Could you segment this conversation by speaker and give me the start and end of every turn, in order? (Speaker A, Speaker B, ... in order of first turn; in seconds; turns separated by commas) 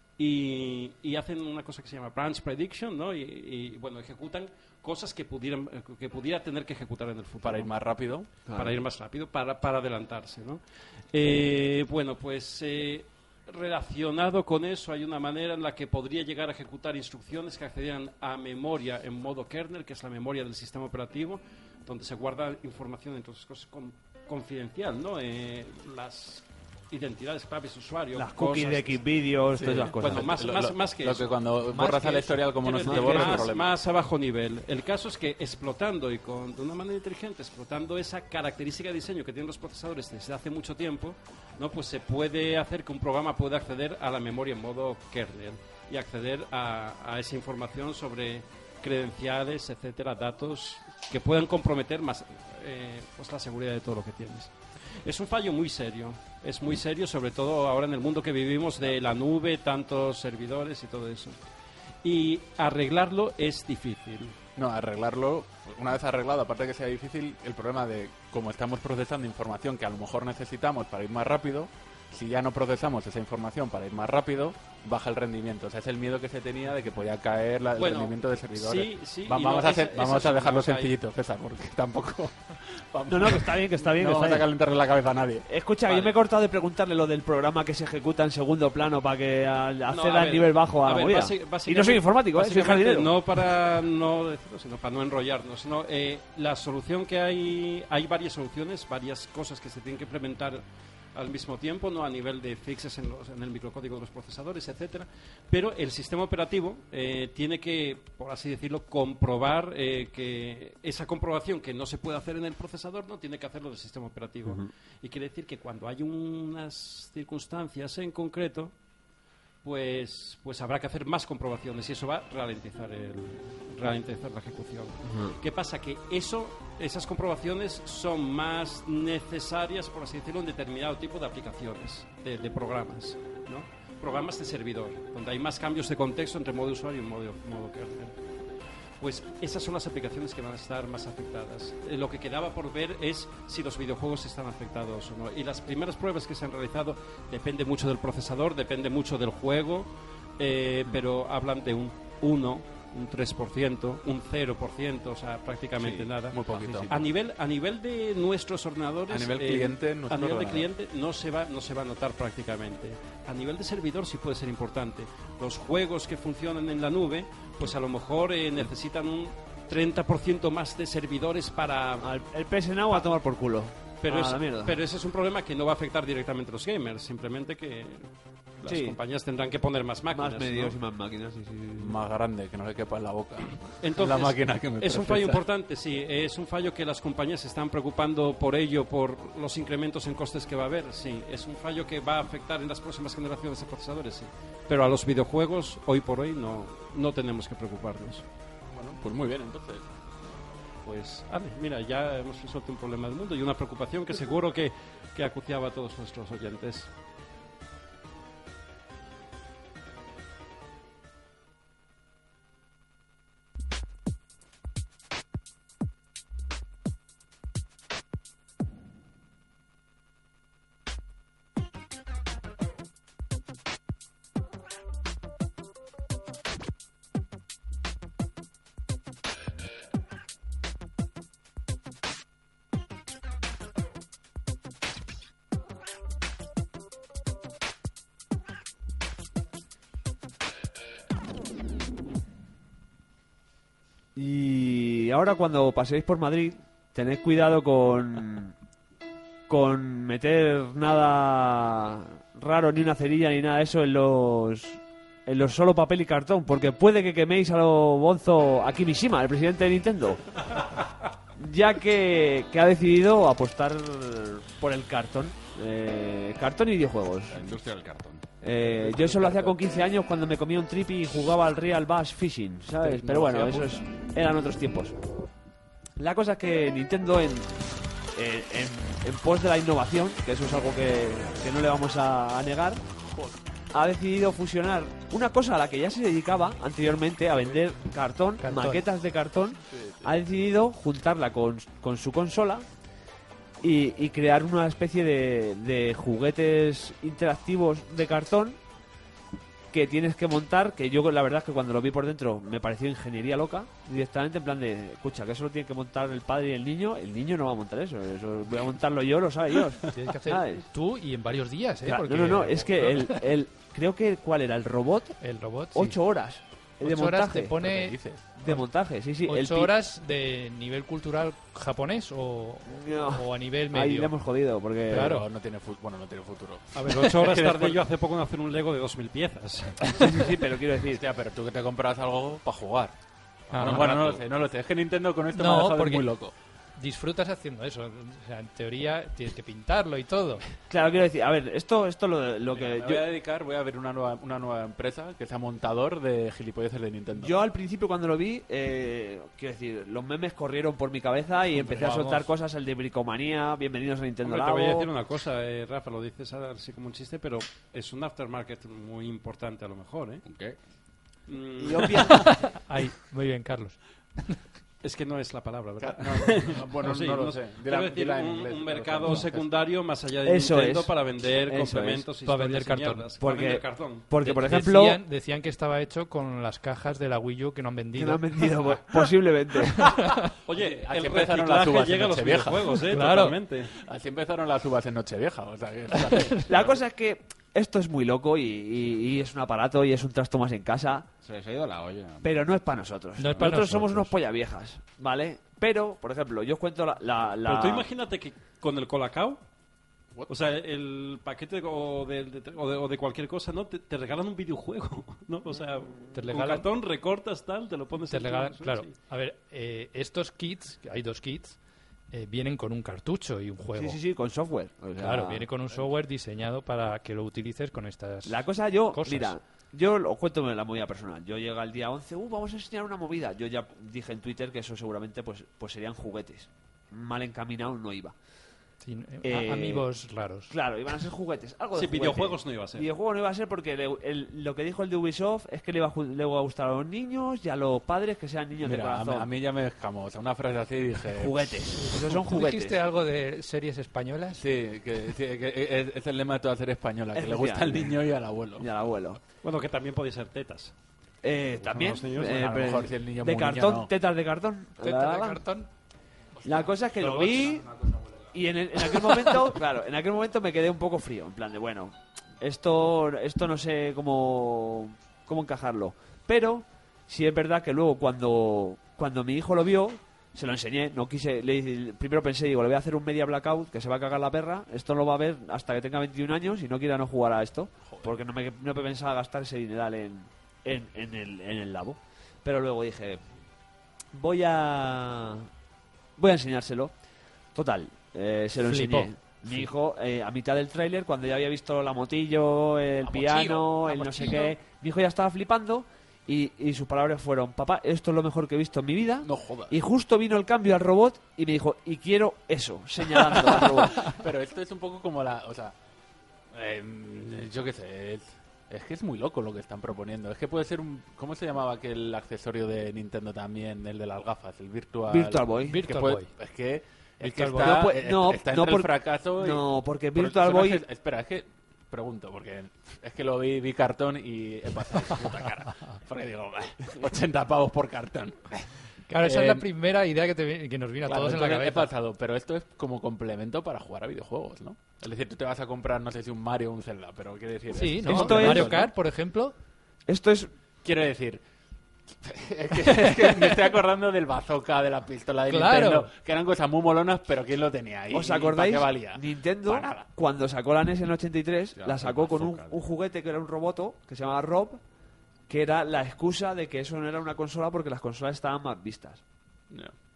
Speaker A: 0.2-7.7, Speaker B: 7.4-8.3, Speaker C: 8.5-8.8, Speaker A: 8.5-10.6, Speaker A: 11.1-29.0, Speaker C: 28.1-30.4, Speaker B: 29.6-33.7, Speaker A: 29.9-61.4, Speaker D: 31.9-32.3, Speaker C: 32.8-33.5, Speaker A: 62.0-64.3, Speaker B: 64.6-85.5, Speaker A: 77.8-80.9, Speaker C: 83.1-84.5, Speaker C: 85.5-93.2, Speaker A: 85.9-86.2, Speaker A: 89.9-118.7, Speaker A: 119.6-138.2, Speaker C: 125.0-125.3, Speaker A: 139.0-172.1, Speaker B: 156.3-157.1, Speaker B: 159.1-160.7, Speaker C: 172.0-174.8, Speaker A: 174.0-180.8, Speaker C: 178.7-179.0, Speaker C: 180.1-182.0, Speaker B: 181.8-185.4, Speaker A: 183.8-198.2, Speaker B: 198.7-199.9, Speaker A: 200.8-206.9, Speaker C: 244.2-248.6, Speaker C: 249.5-260.4, Speaker C: 261.4-267.4, Speaker E: 267.3-268.2, Speaker C: 268.4-275.0, Speaker B: 269.1-269.5, Speaker B: 272.8-273.8, Speaker C: 276.0-277.6, Speaker C: 278.1-282.8, Speaker C: 283.7-292.7, Speaker D: 288.4-288.9, Speaker B: 289.7-290.1, Speaker C: 293.6-298.6, Speaker C: 299.7-310.7, Speaker D: 309.9-313.2, Speaker C: 311.9-315.2, Speaker D: 315.2-316.0, Speaker C: 315.7-317.6, Speaker D: 316.8-318.6, Speaker B: 317.6-318.2, Speaker C: 318.4-319.7, Speaker D: 319.3-324.1, Speaker C: 322.7-325.1, Speaker D: 324.9-325.2, Speaker B: 324.9-327.8, Speaker A: 326.7-330.1, Speaker C: 330.0-331.0, Speaker B: 330.9-332.9, Speaker D: 333.5-333.9, Speaker E: 333.5-334.2, Speaker B: 333.6-336.3, Speaker D: 335.3-336.1, Speaker D: 336.8-340.4, Speaker C: 340.7-343.1, Speaker B: 342.5-347.4, Speaker C: 347.2-354.9, Speaker D: 351.7-352.2, Speaker A: 354.2-360.2, Speaker E: 360.3-360.6, Speaker A: 361.3-362.3, Speaker C: 361.6-362.3, Speaker D: 362.2-364.4, Speaker A: 364.8-374.6, Speaker B: 365.8-369.5, Speaker C: 370.2-372.1, Speaker D: 372.2-373.1, Speaker C: 373.2-375.0, Speaker D: 374.2-378.5, Speaker C: 377.9-379.9, Speaker D: 379.7-380.3, Speaker A: 380.5-383.7, Speaker B: 380.5-382.8, Speaker D: 382.9-383.4, Speaker B: 383.8-386.7, Speaker D: 386.1-386.4, Speaker C: 386.4-391.1, Speaker E: 391.2-392.5, Speaker C: 392.2-397.9, Speaker D: 393.2-394.1, Speaker A: 397.4-399.4, Speaker A: 400.3-408.9, Speaker D: 406.1-406.7, Speaker D: 408.1-411.6, Speaker D: 412.1-414.0, Speaker C: 413.8-415.5, Speaker D: 415.0-419.4, Speaker C: 418.3-428.1, Speaker D: 428.8-430.5, Speaker C: 429.2-429.9, Speaker C: 430.5-439.3, Speaker A: 431.7-432.9, Speaker B: 438.6-441.5, Speaker C: 441.1-442.8, Speaker D: 441.8-444.4, Speaker B: 444.4-448.7, Speaker C: 447.1-448.0, Speaker C: 448.6-449.2, Speaker A: 449.4-450.7, Speaker C: 451.2-455.4, Speaker A: 451.6-452.6, Speaker B: 452.3-453.9, Speaker D: 454.8-455.7, Speaker C: 456.4-457.7, Speaker C: 458.3-483.2, Speaker B: 477.9-478.1, Speaker C: 484.1-485.5, Speaker C: 486.2-486.9, Speaker C: 487.6-504.2, Speaker D: 488.6-489.1, Speaker D: 493.3-494.5, Speaker B: 499.2-499.7, Speaker B: 504.0-505.8, Speaker B: 506.5-528.7, Speaker C: 515.1-515.8, Speaker D: 515.7-516.3, Speaker D: 517.2-517.8, Speaker C: 517.5-520.8, Speaker D: 529.1-531.9, Speaker B: 529.2-529.6, Speaker B: 531.1-538.9, Speaker D: 537.7-539.5, Speaker C: 538.0-538.9, Speaker C: 540.1-540.5, Speaker B: 540.8-541.4, Speaker B: 542.2-550.1, Speaker D: 545.5-546.1, Speaker C: 548.1-554.8, Speaker E: 551.8-552.9, Speaker C: 555.5-559.2